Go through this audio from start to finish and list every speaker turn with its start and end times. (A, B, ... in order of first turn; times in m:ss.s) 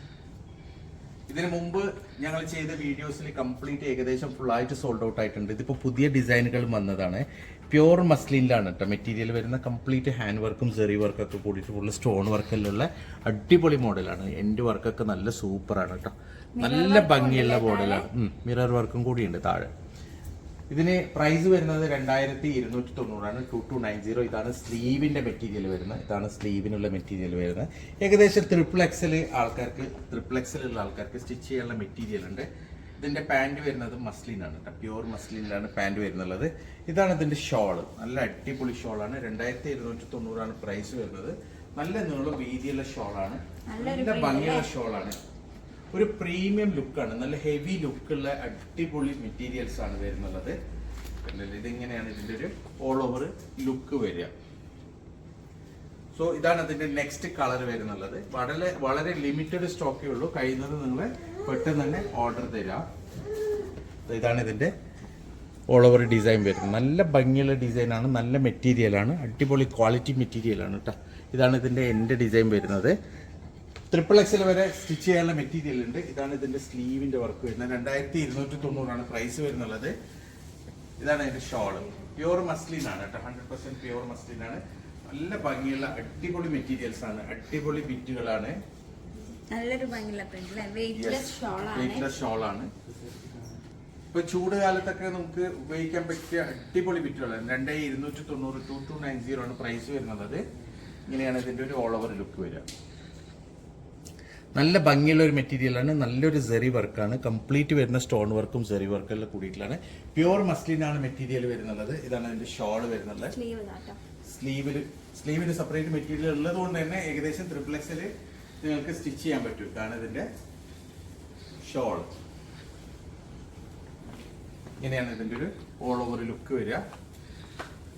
0:01.3-0:19.7 A
0:16.6-0:18.1 B
0:20.7-0:45.2 A
0:43.7-0:44.7 B
0:45.9-0:50.6 A
0:51.2-0:54.3 A
0:56.1-1:02.8 A
1:04.1-1:04.7 A
1:05.7-1:12.9 A
1:13.9-1:19.9 A
1:21.0-1:28.6 A
1:29.5-1:32.1 B
1:30.9-1:32.7 A
1:34.1-1:40.4 A
1:41.1-1:42.6 A
1:44.5-1:53.3 A
1:53.3-1:54.0 B
1:54.3-2:00.3 A
2:01.6-2:02.1 A
2:04.8-2:06.8 A